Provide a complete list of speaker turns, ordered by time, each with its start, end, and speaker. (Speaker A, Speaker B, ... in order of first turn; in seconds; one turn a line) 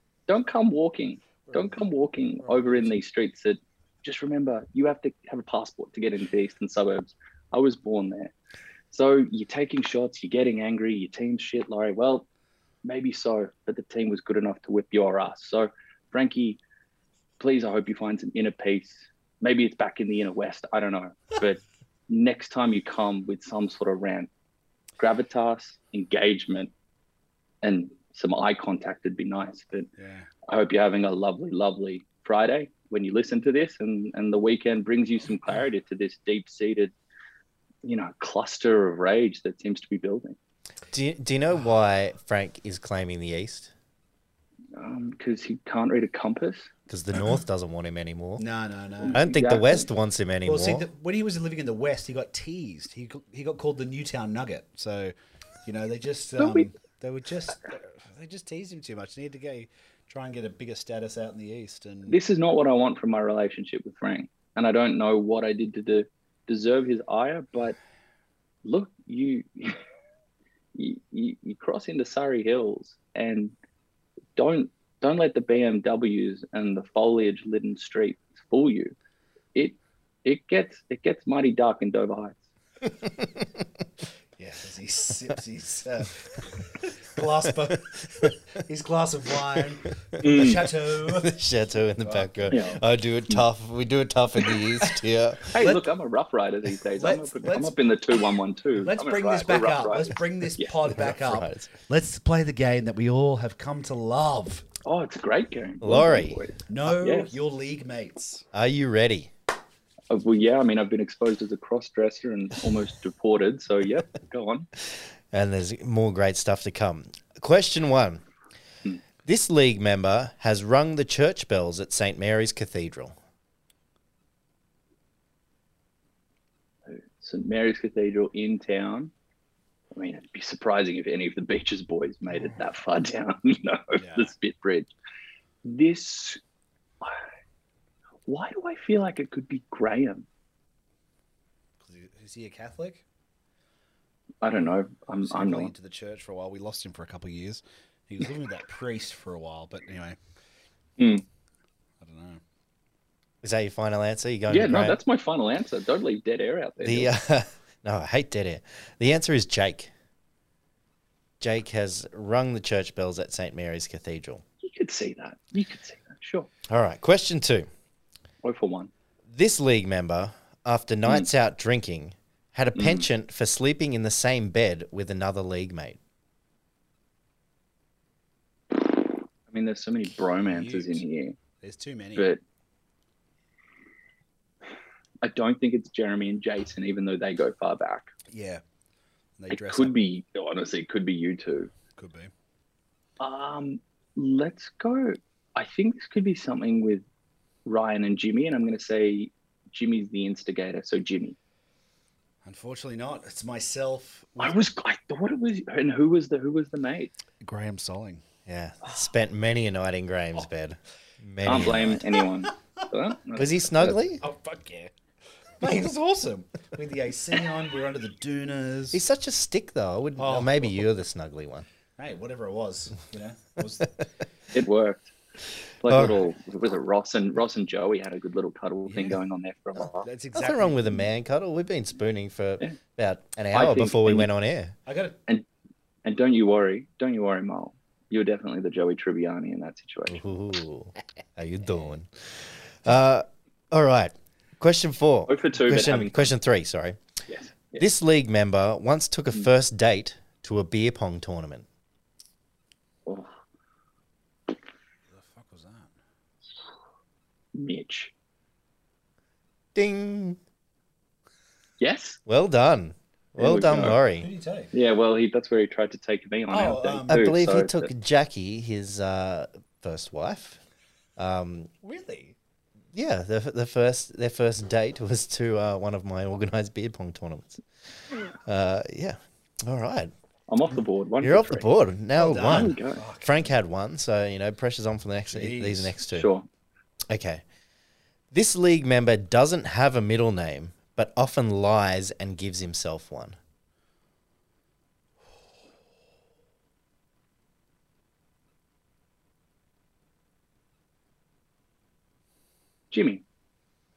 Speaker A: 0.3-8.3
Speaker B: 1.4-1.8
Speaker B: 2.4-3.0
Speaker A: 8.9-12.2
Speaker A: 12.8-16.6
Speaker A: 17.4-24.3
Speaker A: 25.0-26.7
Speaker A: 27.6-29.9
Speaker B: 30.0-30.3
Speaker A: 30.5-36.9
Speaker A: 37.8-40.4
Speaker C: 40.9-43.7
Speaker A: 44.7-46.7
Speaker C: 46.9-48.4
Speaker B: 48.4-49.2
Speaker A: 49.0-49.9
Speaker C: 49.1-50.9
Speaker B: 50.4-55.1
Speaker B: 55.6-62.2
Speaker A: 56.4-56.7
Speaker A: 62.1-67.8
Speaker A: 68.6-69.8
Speaker A: 70.7-73.5
Speaker A: 74.3-78.9
Speaker A: 79.5-82.4
Speaker B: 84.4-91.3
Speaker C: 90.2-95.5
Speaker A: 90.2-90.7
Speaker B: 92.0-92.8
Speaker A: 95.5-100.7
Speaker B: 95.5-95.9
Speaker B: 96.9-97.8
Speaker B: 98.8-104.7
Speaker C: 100.9-101.7
Speaker A: 104.8-107.3
Speaker C: 105.8-106.4
Speaker B: 106.7-108.5
Speaker C: 108.5-109.3
Speaker A: 110.1-114.7
Speaker C: 115.3-118.2
Speaker C: 119.2-123.1
Speaker A: 126.9-129.1
Speaker A: 129.9-134.9
Speaker B: 133.9-134.3
Speaker A: 135.6-136.4
Speaker A: 138.2-140.2
Speaker B: 141.8-143.0
Speaker A: 144.4-145.7
Speaker B: 145.2-150.2
Speaker A: 151.0-151.2
Speaker B: 152.0-152.4
Speaker C: 153.4-155.0
Speaker A: 154.5-157.1
Speaker C: 156.8-159.9
Speaker C: 161.4-164.4
Speaker A: 164.6-166.5
Speaker C: 166.7-167.7
Speaker A: 168.4-168.9
Speaker C: 169.3-176.0
Speaker A: 172.7-173.1
Speaker A: 179.5-181.4
Speaker B: 180.4-181.0
Speaker B: 181.6-182.3
Speaker A: 185.2-188.1
Speaker B: 188.3-188.6
Speaker B: 189.4-189.9
Speaker A: 189.5-191.7
Speaker B: 191.9-192.3
Speaker A: 193.2-197.0
Speaker A: 197.6-201.3
Speaker B: 202.4-204.6
Speaker A: 204.4-207.1
Speaker B: 207.4-208.2
Speaker C: 208.4-212.0
Speaker A: 211.4-214.0
Speaker C: 213.3-214.2
Speaker B: 213.8-214.9
Speaker B: 215.6-219.0
Speaker C: 218.9-221.7
Speaker B: 220.2-220.7
Speaker B: 222.0-223.9
Speaker A: 224.5-225.1
Speaker A: 225.8-230.1
Speaker C: 225.9-226.2
Speaker B: 228.8-229.2
Speaker C: 229.8-234.7
Speaker B: 230.0-231.1
Speaker A: 233.5-234.3
Speaker B: 234.8-235.2
Speaker A: 236.0-240.2
Speaker C: 240.1-247.0
Speaker A: 245.3-246.3
Speaker A: 247.3-247.8
Speaker C: 247.7-251.7
Speaker B: 255.1-255.9
Speaker A: 257.5-258.1
Speaker C: 259.7-260.4
Speaker A: 261.8-262.2
Speaker C: 262.3-264.3
Speaker A: 263.4-264.0
Speaker B: 263.9-264.7
Speaker A: 264.7-267.9
Speaker B: 266.5-267.2
Speaker C: 267.1-270.6
Speaker C: 271.2-271.7
Speaker B: 271.8-272.3
Speaker C: 272.9-277.6
Speaker C: 278.4-280.1
Speaker A: 280.5-281.6
Speaker C: 281.2-286.3
Speaker B: 282.1-283.4
Speaker A: 282.3-283.0
Speaker B: 285.3-285.9
Speaker A: 286.1-286.4
Speaker C: 287.1-287.4
Speaker C: 288.3-293.4
Speaker A: 302.9-303.2